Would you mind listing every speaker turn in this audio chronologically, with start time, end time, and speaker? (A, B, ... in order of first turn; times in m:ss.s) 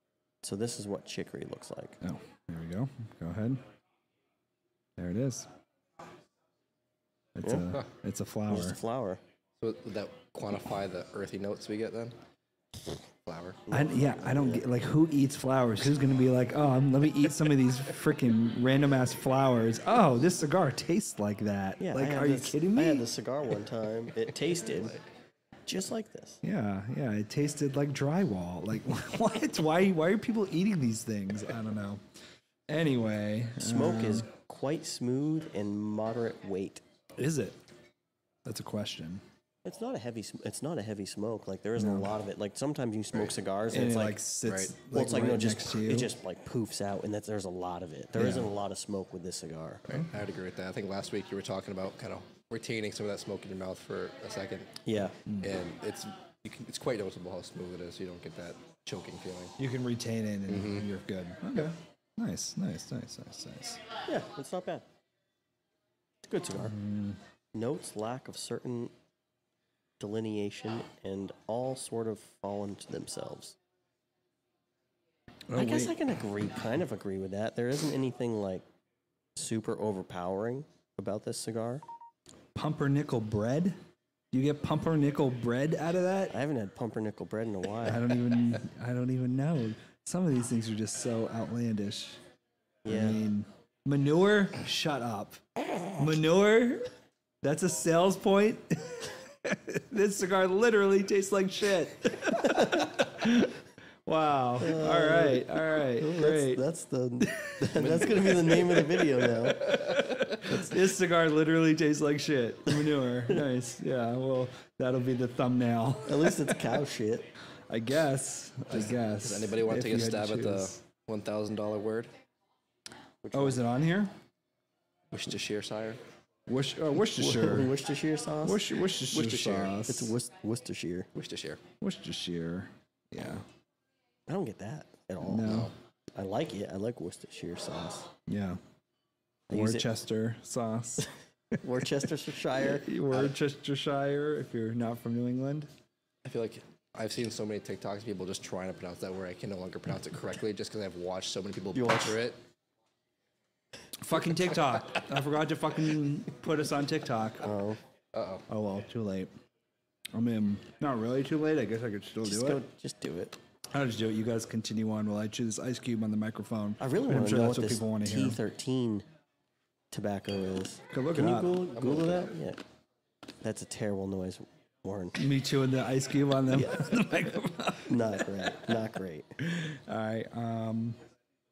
0:00.4-0:02.0 A
0:02.0-0:03.6 B
0:05.0-0:05.5 B
0:07.4-0:08.8 B
0:07.4-0:07.7 A
0:08.5-0:09.2 A
0:09.6-0:12.1 C
0:13.2-0:13.6 C
0:13.7-0:14.6 A
0:13.7-0:23.1 B
0:21.8-0:25.0 A
0:25.7-0:26.4 A
0:26.4-0:32.0 B
0:32.7-0:34.3 B
0:33.6-0:36.8 A
0:37.2-0:37.6 B
0:38.4-0:39.2 B
0:39.6-0:44.2 A
0:41.8-0:42.1 B
0:43.7-0:46.1 B
0:44.5-0:44.7 C
0:44.9-0:49.8 A
0:48.2-0:48.5 B
0:49.9-0:54.8 C
0:54.8-0:55.2 A
0:55.2-0:55.6 B
0:55.4-0:59.6 C
0:59.6-1:03.8 B
1:00.5-1:00.9 C
1:04.0-1:04.8 A
1:06.2-1:06.8 A
1:06.6-1:07.2 B
1:07.5-1:08.9 A
1:10.0-1:13.6 A
1:15.5-1:16.0 B
1:15.5-1:18.6 A
1:19.4-1:21.8 A
1:22.5-1:23.8 B
1:24.3-1:26.4 B
1:26.3-1:28.1 A
1:27.8-1:32.2 B
1:32.8-1:33.2 A
1:32.8-1:36.9 B
1:37.4-1:46.6 B
1:44.6-1:45.5 A
1:46.0-1:49.8 A
1:47.2-1:56.6 B
1:56.0-1:57.3 A
1:57.7-2:00.8 B
1:58.7-2:02.1 C
2:03.2-2:03.6 A
2:03.3-2:04.1 B
2:05.1-2:06.0 C
2:06.5-2:07.8 B
2:07.1-2:08.6 A
2:08.4-2:10.2 B
2:09.1-2:09.8 C
2:09.9-2:11.1 A
2:11.1-2:11.6 C
2:11.8-2:13.4 B
2:14.3-2:18.1 A
2:15.2-2:15.7 B
2:15.4-2:15.7 C
2:18.3-2:18.6 B
2:19.5-2:19.9 A
2:19.5-2:21.1 B
2:21.6-2:23.3 A
2:22.6-2:25.7 B
2:26.2-2:32.4 C
2:31.7-2:32.2 A
2:34.0-2:37.6 B
2:37.4-2:37.8 A
2:38.1-2:38.4 C
2:38.5-2:39.3 B
2:40.1-2:42.6 B
2:42.2-2:43.4 A
2:43.7-2:48.4 B
2:46.8-2:49.0 A
2:49.9-2:52.6 A
2:50.9-2:51.7 B
2:51.8-2:52.3 C
2:53.4-2:55.2 A
2:55.2-2:58.5 B
2:56.5-2:56.9 A
2:57.8-2:59.3 A
2:59.4-3:01.0 B